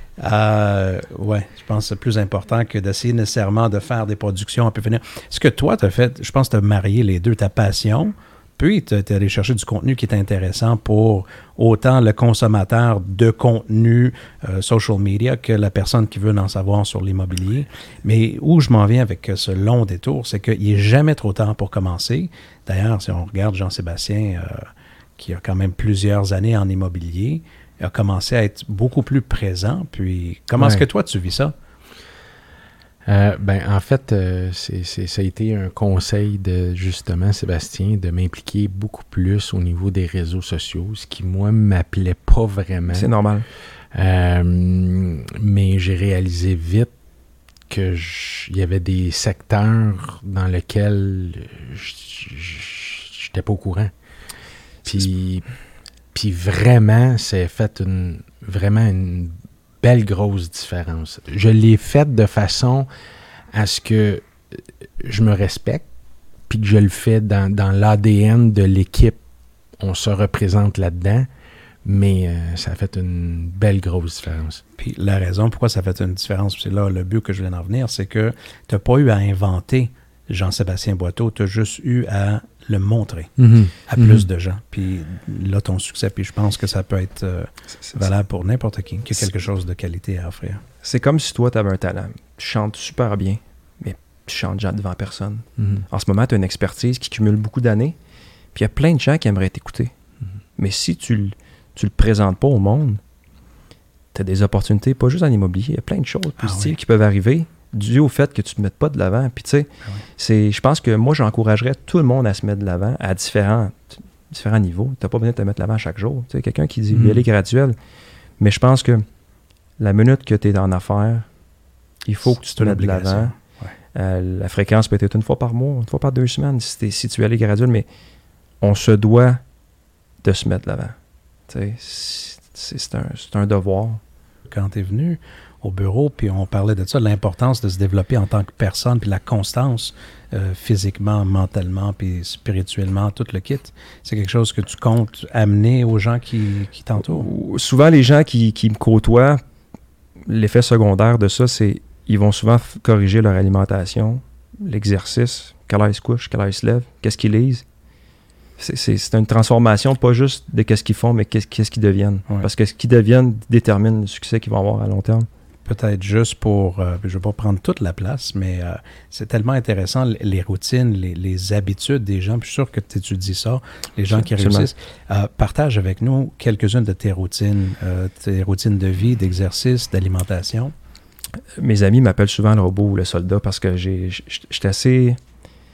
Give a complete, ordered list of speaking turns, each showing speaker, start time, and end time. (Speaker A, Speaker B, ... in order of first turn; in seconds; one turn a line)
Speaker A: 0.2-31.6
Speaker B: 30.6-30.8
Speaker B: 33.1-43.1
Speaker C: 42.9-43.5
Speaker B: 43.9-46.9
Speaker B: 47.7-53.9
Speaker B: 54.9-55.5
Speaker B: 56.1-62.9
Speaker B: 63.5-64.3
Speaker B: 65.0-65.8
Speaker B: 66.5-69.2
Speaker B: 69.8-71.3
Speaker B: 71.8-74.6
Speaker A: 74.8-90.6
Speaker B: 83.4-84.3
Speaker C: 90.8-98.0
Speaker B: 95.6-95.8
Speaker C: 98.5-99.9
Speaker C: 100.6-103.0
Speaker C: 104.1-117.8
Speaker A: 106.4-106.8
Speaker B: 116.9-117.2
Speaker C: 118.4-119.1
Speaker C: 119.8-121.3
Speaker C: 122.0-123.4
Speaker A: 122.5-123.7
Speaker C: 123.9-127.9
Speaker C: 128.6-129.4
Speaker C: 130.2-131.0
Speaker C: 131.5-134.0
Speaker A: 134.5-147.3
Speaker C: 147.0-149.4
Speaker C: 150.2-157.7
Speaker C: 158.6-165.3
Speaker A: 165.7-180.8
Speaker C: 174.1-174.7
Speaker C: 181.6-185.2